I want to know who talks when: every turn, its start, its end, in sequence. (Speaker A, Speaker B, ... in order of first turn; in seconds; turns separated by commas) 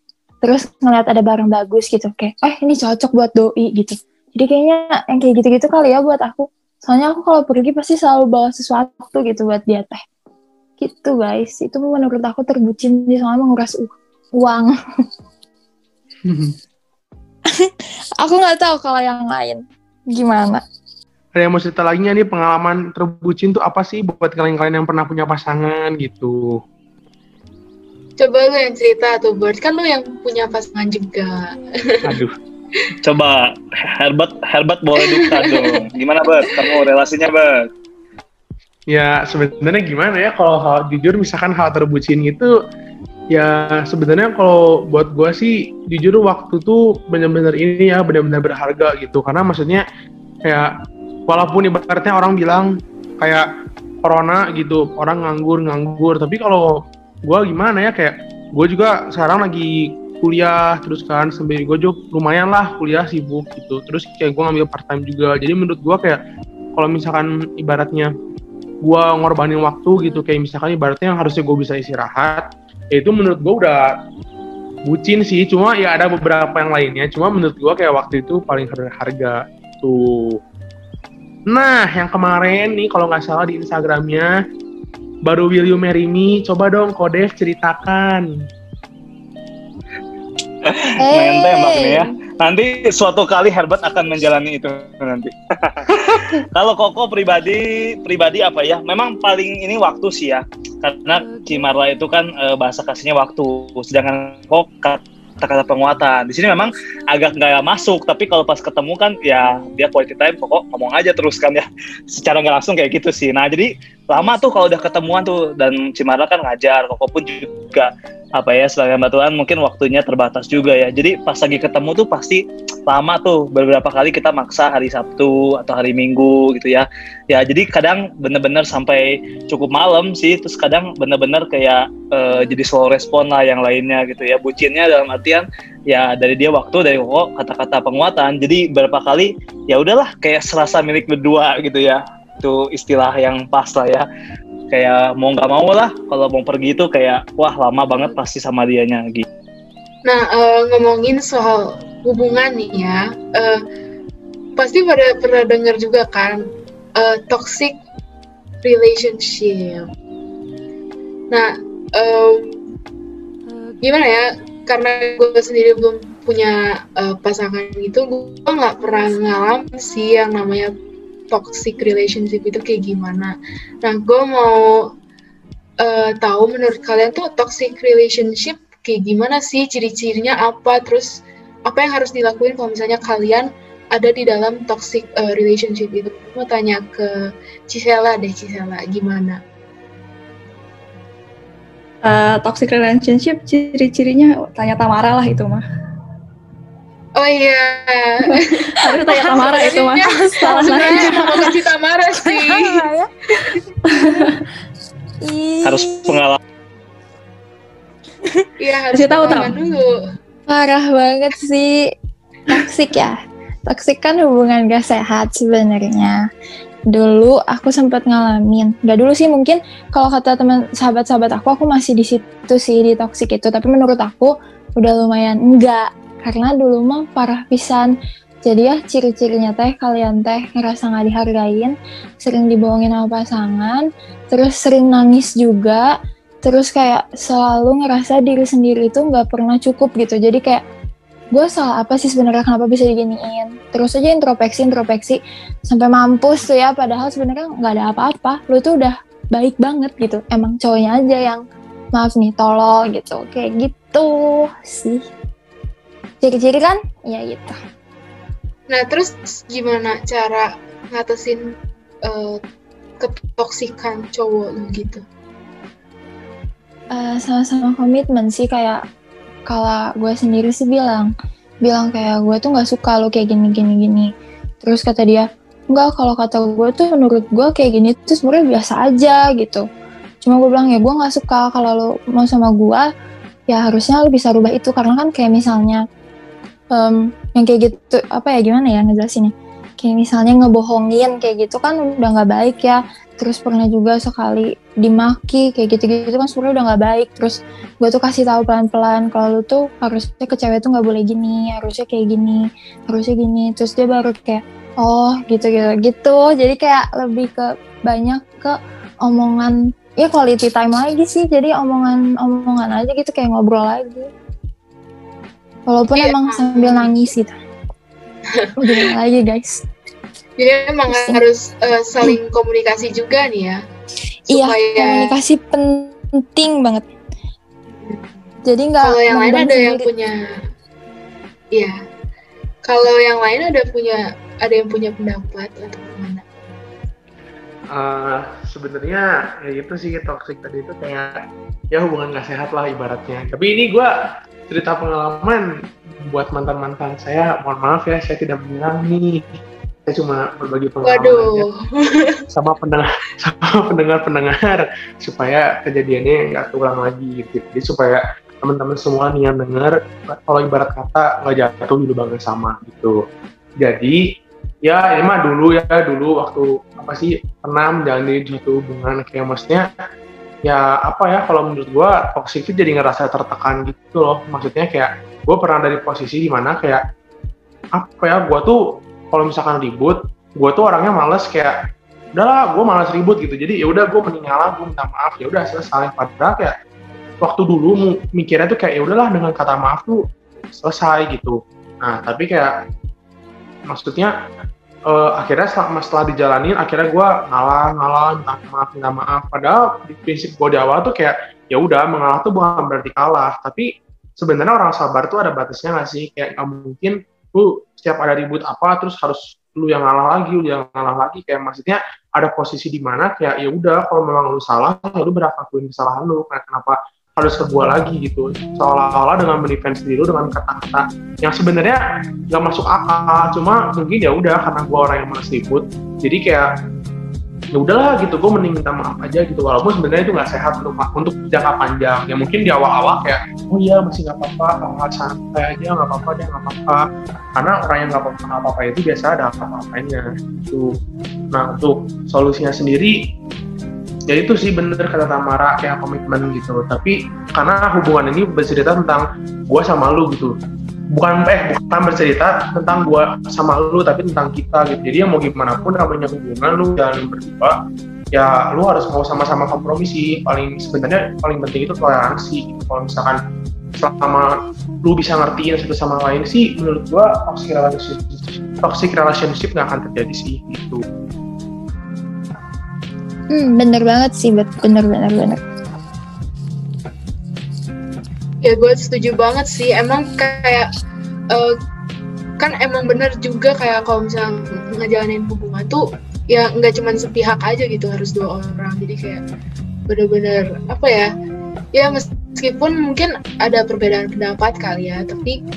Speaker A: 0.4-10.0, Speaker A: 10.8-14.7, Speaker B: 16.2-16.5, Speaker A: 18.2-20.6, Speaker B: 21.4-26.6, Speaker C: 28.2-32.2, Speaker B: 32.0-32.3, Speaker D: 33.0-37.7, Speaker C: 35.0-35.8, Speaker C: 36.4-36.8, Speaker B: 38.9-42.5, Speaker B: 43.3-49.8, Speaker B: 51.3-53.4, Speaker B: 54.0-66.2, Speaker B: 66.8-68.1, Speaker B: 68.8-73.9, Speaker B: 74.9-80.4, Speaker B: 81.5-84.3, Speaker B: 85.2-88.2, Speaker D: 90.6-144.1, Speaker A: 91.0-92.1, Speaker D: 144.7-149.2, Speaker C: 150.1-153.6, Speaker C: 154.6-156.4, Speaker C: 157.0-157.8, Speaker C: 158.6-159.9, Speaker C: 161.3-162.6, Speaker C: 163.8-170.7, Speaker C: 171.3-174.9, Speaker C: 175.8-187.1, Speaker C: 187.7-189.4, Speaker E: 192.0-195.6, Speaker C: 197.2-202.9, Speaker E: 198.8-201.6, Speaker A: 199.2-201.4, Speaker A: 202.2-203.1, Speaker E: 203.9-204.4, Speaker A: 205.2-206.2, Speaker D: 205.6-206.4, Speaker C: 208.6-209.9, Speaker E: 208.9-209.6, Speaker A: 210.5-211.9, Speaker A: 212.5-216.2, Speaker A: 216.9-227.9, Speaker A: 228.4-235.9, Speaker A: 236.4-240.6, Speaker A: 241.3-251.4, Speaker A: 251.9-255.0, Speaker A: 256.2-257.6, Speaker C: 258.7-261.5, Speaker C: 262.0-262.4, Speaker C: 263.0-265.0, Speaker A: 266.9-268.8, Speaker A: 269.5-271.1, Speaker A: 271.6-274.1, Speaker A: 274.6-279.6, Speaker A: 280.2-282.9, Speaker A: 283.5-285.8, Speaker A: 286.7-314.1, Speaker A: 315.7-317.3, Speaker C: 316.0-316.9, Speaker C: 318.3-318.9, Speaker A: 318.6-319.6, Speaker C: 320.4-323.6, Speaker A: 320.9-321.2, Speaker C: 324.3-325.1, Speaker A: 324.3-326.8, Speaker C: 327.8-328.1, Speaker A: 328.4-329.8, Speaker C: 328.8-330.2, Speaker C: 331.5-331.8, Speaker C: 332.6-336.3, Speaker B: 337.7-343.9, Speaker B: 344.5-351.4, Speaker C: 350.8-352.2, Speaker B: 352.3-363.0, Speaker B: 363.6-364.0, Speaker B: 364.6-369.7, Speaker B: 370.4-376.8, Speaker B: 377.8-378.6, Speaker B: 379.1-381.5, Speaker B: 382.1-386.5, Speaker B: 387.2-392.6, Speaker B: 393.7-394.1, Speaker B: 394.9-426.5, Speaker B: 427.5-436.8, Speaker B: 437.4-440.7, Speaker B: 441.3-443.0, Speaker B: 444.1-450.3, Speaker B: 450.9-457.6, Speaker B: 458.1-463.2, Speaker B: 463.8-470.8, Speaker A: 473.3-475.4, Speaker C: 478.4-480.7, Speaker C: 482.4-489.2, Speaker C: 489.9-491.1, Speaker C: 491.7-495.4